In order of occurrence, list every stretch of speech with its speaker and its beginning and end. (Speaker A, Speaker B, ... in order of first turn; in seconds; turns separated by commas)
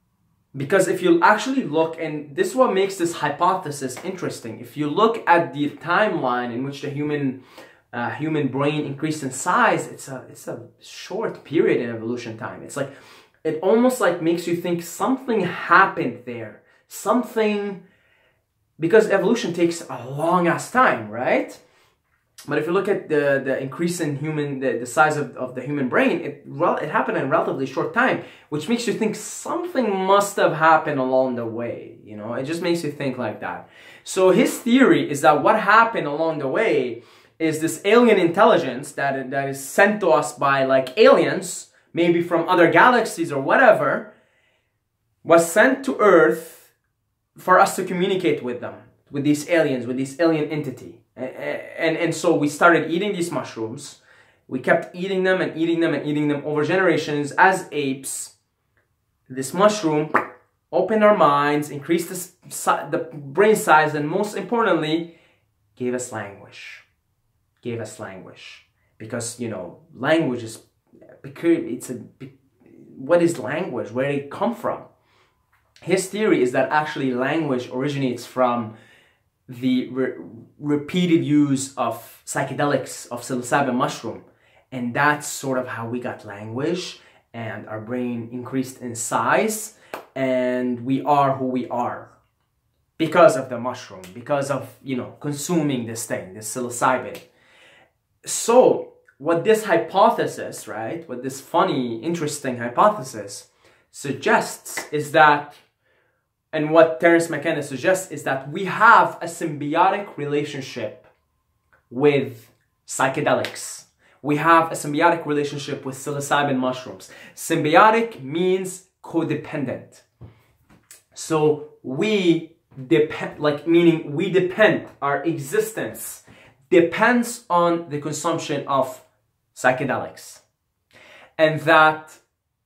Speaker A: 0.5-7.4, Speaker A: 7.9-12.9, Speaker A: 13.4-17.8, Speaker A: 18.8-21.6, Speaker A: 22.5-44.1, Speaker A: 45.2-46.7, Speaker A: 47.4-58.3, Speaker A: 59.3-60.1, Speaker A: 60.7-65.1, Speaker A: 65.8-66.9, Speaker A: 67.6-70.6, Speaker A: 71.2-74.9, Speaker A: 75.8-78.7, Speaker A: 79.5-92.1, Speaker A: 93.0-97.3, Speaker A: 98.2-105.6, Speaker A: 106.5-111.1, Speaker A: 111.9-120.0, Speaker A: 121.1-130.4, Speaker A: 131.4-132.2